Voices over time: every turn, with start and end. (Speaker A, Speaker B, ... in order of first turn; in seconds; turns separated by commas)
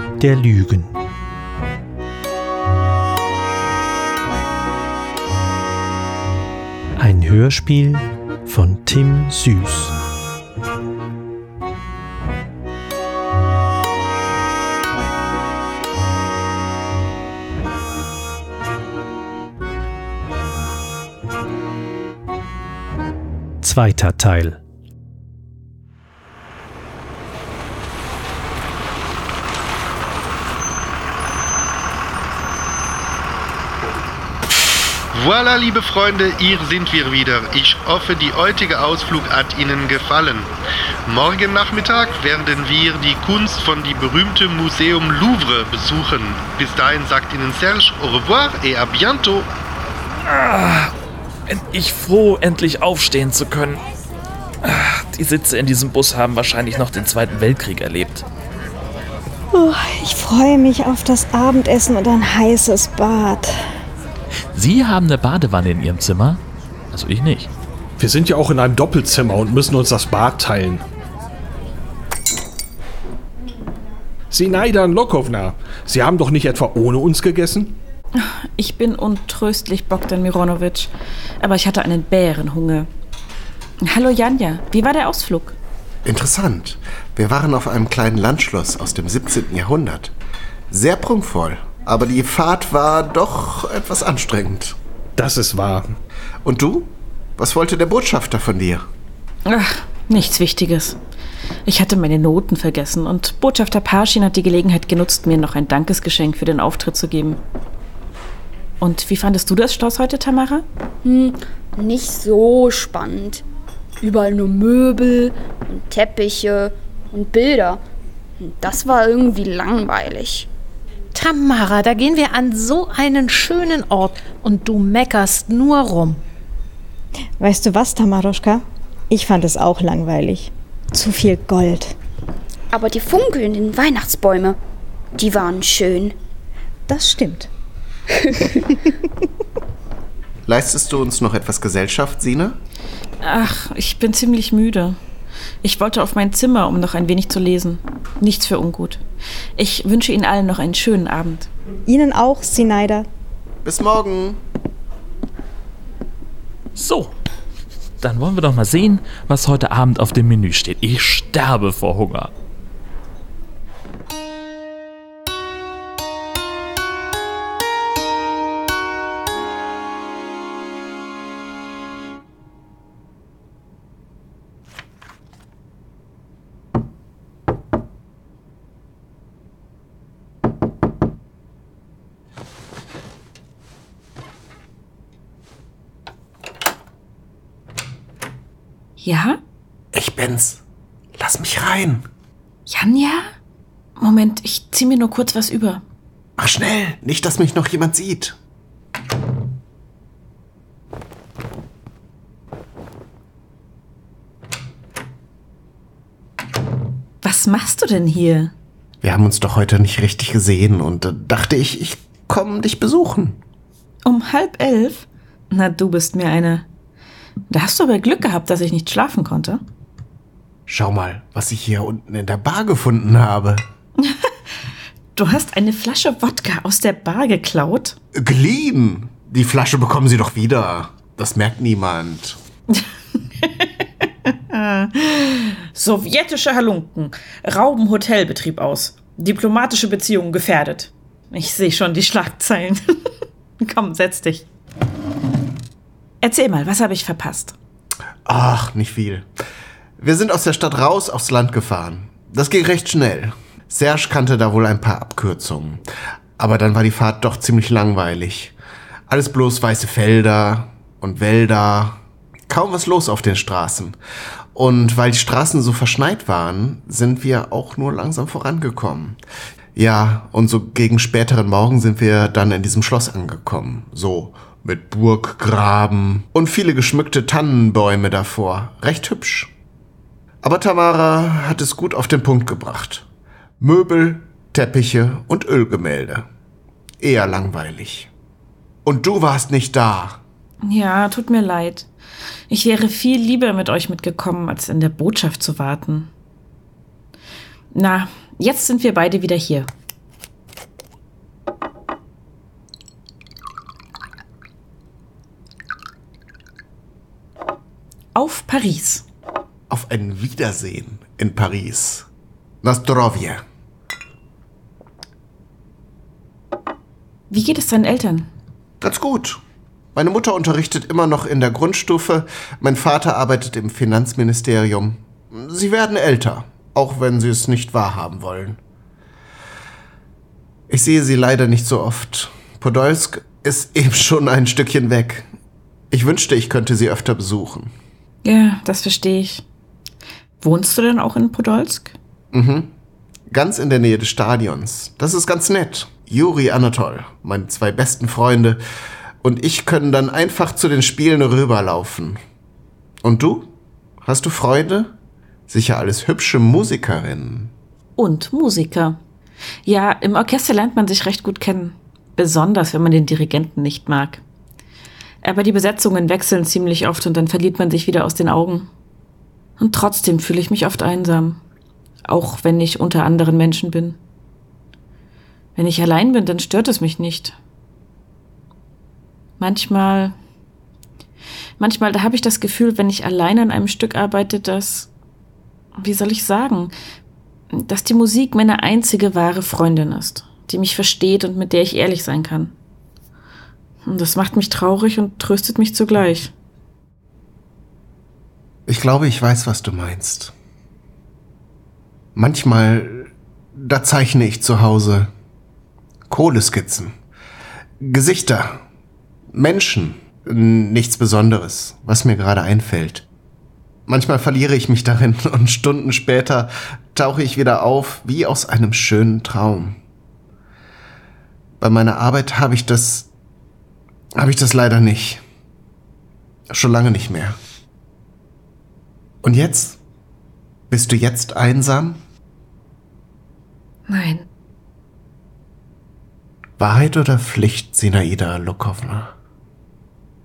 Speaker A: 0.2-0.9, Speaker A: 7.0-9.9, Speaker A: 23.6-24.6, Speaker B: 35.1-40.5, Speaker B: 41.0-49.5, Speaker C: 50.2-50.9, Speaker C: 51.5-53.8, Speaker C: 54.6-58.2, Speaker D: 59.5-63.7, Speaker C: 64.5-67.5, Speaker E: 68.0-70.8, Speaker E: 74.3-77.8, Speaker F: 78.2-82.9, Speaker F: 83.8-85.6, Speaker G: 86.0-90.1, Speaker G: 90.7-94.8, Speaker E: 95.2-95.9, Speaker G: 96.4-98.8, Speaker F: 99.5-101.0, Speaker F: 101.7-107.4, Speaker F: 108.8-110.7, Speaker H: 111.0-113.4, Speaker H: 114.0-117.8, Speaker H: 118.4-120.5, Speaker I: 121.1-126.2, Speaker D: 127.4-131.9, Speaker H: 132.7-134.6, Speaker H: 135.1-136.2, Speaker D: 136.9-137.5, Speaker H: 138.2-138.6, Speaker G: 140.4-142.6, Speaker F: 143.2-145.0, Speaker F: 145.6-149.0, Speaker F: 149.6-151.5, Speaker D: 151.8-153.1, Speaker G: 153.6-154.4, Speaker C: 156.8-157.1, Speaker C: 158.0-162.3, Speaker F: 189.0-189.4, Speaker G: 189.9-190.6, Speaker G: 191.2-192.1, Speaker F: 192.7-193.3, Speaker F: 194.0-195.8, Speaker G: 196.4-198.4, Speaker F: 207.2-208.5, Speaker G: 209.0-213.4, Speaker F: 214.0-216.7, Speaker F: 217.5-219.6, Speaker G: 220.7-223.6, Speaker F: 224.0-224.3, Speaker F: 225.1-227.9, Speaker G: 228.1-232.4, Speaker F: 233.4-242.8, Speaker F: 243.6-244.5, Speaker F: 246.2-247.5, Speaker G: 248.2-249.3, Speaker G: 250.0-255.8, Speaker G: 256.4-258.5, Speaker G: 259.1-264.0, Speaker G: 264.5-269.2, Speaker G: 269.7-279.5, Speaker G: 280.4-283.1, Speaker G: 283.6-286.3, Speaker G: 287.0-288.1, Speaker G: 288.8-290.2, Speaker F: 290.6-291.9, Speaker F: 292.5-296.1, Speaker F: 297.7-299.7, Speaker F: 308.1-309.0, Speaker G: 309.7-312.1, Speaker G: 312.6-313.4, Speaker F: 317.3-318.3, Speaker G: 318.8-319.4, Speaker G: 319.9-328.6, Speaker G: 330.7-335.3, Speaker G: 335.9-337.7, Speaker F: 338.2-339.4, Speaker F: 340.4-341.9, Speaker G: 342.3-342.7, Speaker G: 343.3-348.6, Speaker G: 349.2-352.2, Speaker G: 353.0-354.9, Speaker G: 355.5-357.5, Speaker F: 358.0-359.0, Speaker F: 359.6-364.2, Speaker F: 365.2-368.7, Speaker F: 369.6-371.4, Speaker F: 372.0-374.0, Speaker F: 375.6-377.4, Speaker F: 379.4-380.1, Speaker F: 381.6-384.9, Speaker F: 385.8-386.7, Speaker F: 387.5-392.5, Speaker F: 393.8-396.3, Speaker G: 398.7-400.3, Speaker G: 402.1-405.1, Speaker G: 406.1-406.9, Speaker G: 407.8-408.6, Speaker G: 409.3-413.1, Speaker G: 413.9-419.8, Speaker G: 421.6-423.1, Speaker G: 424.1-425.2, Speaker G: 426.5-427.4, Speaker G: 429.2-429.8, Speaker G: 430.7-432.0, Speaker F: 433.9-434.2, Speaker G: 436.6-439.1